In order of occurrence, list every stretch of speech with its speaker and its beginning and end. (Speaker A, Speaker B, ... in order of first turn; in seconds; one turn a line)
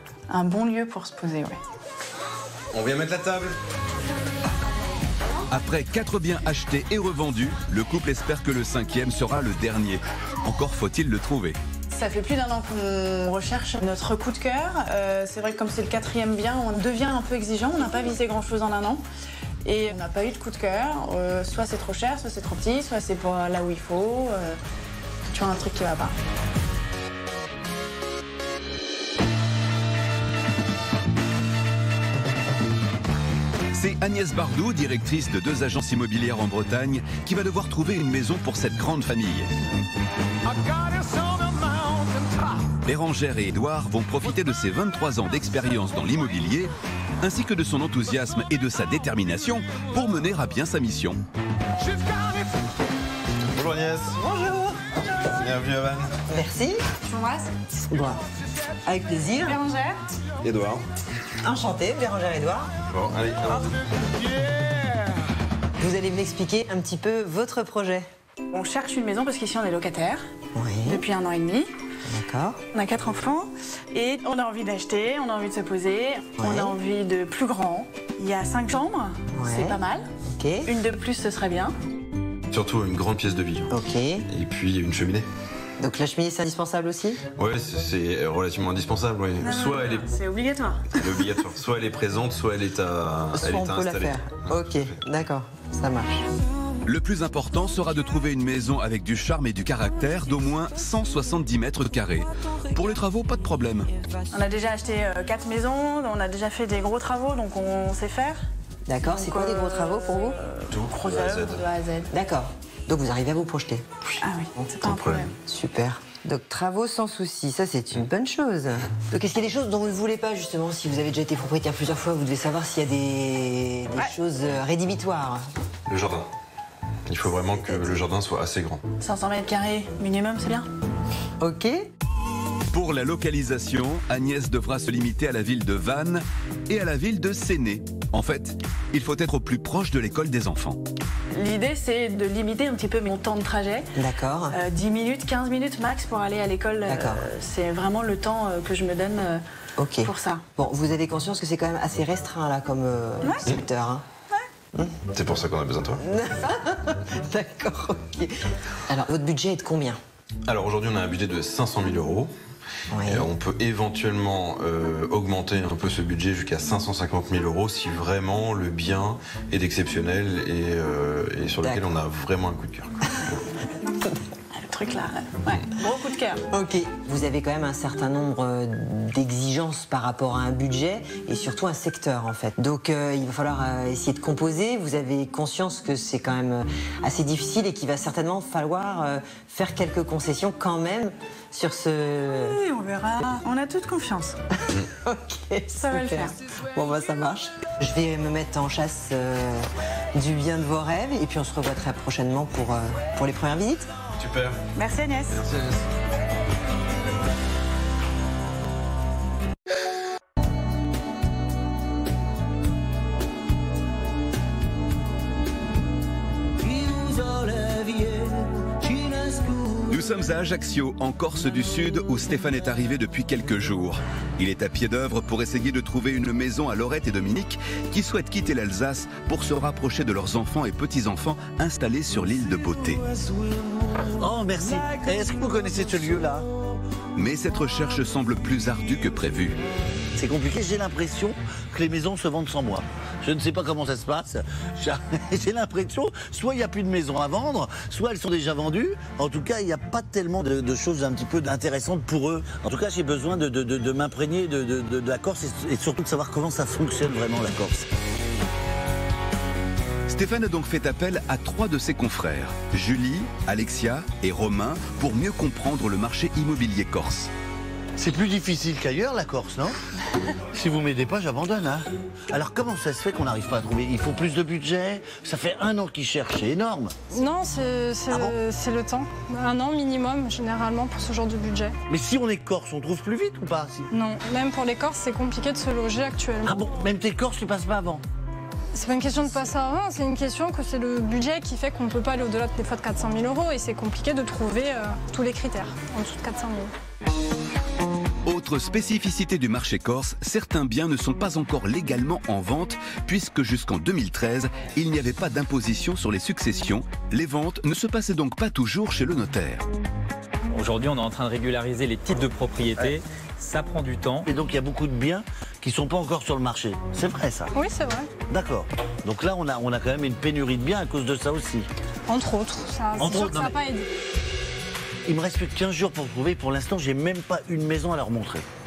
Speaker A: 0.3-1.6
Speaker B: 2.7-3.6
Speaker C: 5.5-11.6
Speaker A: 11.9-19.0
Speaker A: 19.6-24.6
Speaker A: 25.3-26.2
Speaker C: 33.7-39.5
Speaker C: 42.8-51.2
Speaker B: 53.5-54.2
Speaker D: 54.2-54.7
Speaker B: 55.2-56.1
Speaker D: 56.3-56.8
Speaker A: 57.0-57.7
Speaker D: 57.9-58.2
Speaker D: 58.9-59.6
Speaker A: 59.4-60.0
Speaker B: 60.4-60.8
Speaker D: 61.4-62.7
Speaker B: 62.9-63.8
Speaker D: 65.8-68.1
Speaker A: 68.5-70.2
Speaker D: 70.5-71.0
Speaker A: 70.8-71.7
Speaker D: 72.1-72.6
Speaker A: 72.7-80.1
Speaker D: 76.4-76.8
Speaker D: 79.3-79.8
Speaker D: 80.3-80.7
Speaker A: 80.7-81.8
Speaker B: 82.5-83.7
Speaker D: 83.7-84.3
Speaker B: 84.3-85.3
Speaker D: 85.8-87.2
Speaker B: 87.4-90.1
Speaker A: 89.4-91.5
Speaker B: 91.0-94.9
Speaker D: 93.3-96.3
Speaker C: 96.9-103.9
Speaker A: 104.3-108.4
Speaker D: 108.9-110.4
Speaker A: 109.1-112.1
Speaker B: 110.7-111.7
Speaker D: 112.1-113.9
Speaker A: 114.2-115.3
Speaker D: 114.6-125.5
Speaker B: 125.9-126.3
Speaker B: 127.1-128.8
Speaker A: 129.0-130.7
Speaker D: 131.4-131.8
Speaker C: 132.7-140.8
Speaker A: 141.3-143.9
Speaker D: 144.0-144.6
Speaker A: 144.5-149.4
Speaker D: 146.8-147.2
Speaker D: 149.8-154.0
Speaker A: 150.0-150.5
Speaker A: 153.2-153.5
Speaker B: 155.1-156.0
Speaker D: 156.0-160.0
Speaker B: 160.5-162.3
Speaker D: 162.9-163.3
Speaker B: 163.0-172.9
Speaker A: 174.6-176.4
Speaker D: 176.5-192.6
Speaker A: 192.4-194.4
Speaker D: 195.1-203.9
Speaker A: 195.7-196.4
Speaker B: 204.2-204.6
Speaker A: 204.8-205.4
Speaker B: 205.4-205.8
Speaker E: 216.6-219.8
Speaker C: 219.9-233.1
Speaker E: 234.2-236.5
Speaker C: 237.2-239.6
Speaker E: 240.2-257.9
Speaker C: 260.1-267.3
Speaker E: 268.0-269.8
Speaker E: 270.5-276.9
Speaker F: 277.1-281.8
Speaker E: 278.1-278.4
Speaker E: 281.9-283.9
Speaker F: 283.9-286.7
Speaker E: 286.4-288.0
Speaker F: 288.7-296.7
Speaker C: 298.3-309.6
Speaker G: 310.5-314.3
Speaker E: 314.2-317.5
Speaker F: 317.5-318.1
Speaker E: 318.3-321.7
Speaker F: 322.1-323.9
Speaker E: 323.0-323.6
Speaker E: 325.1-328.4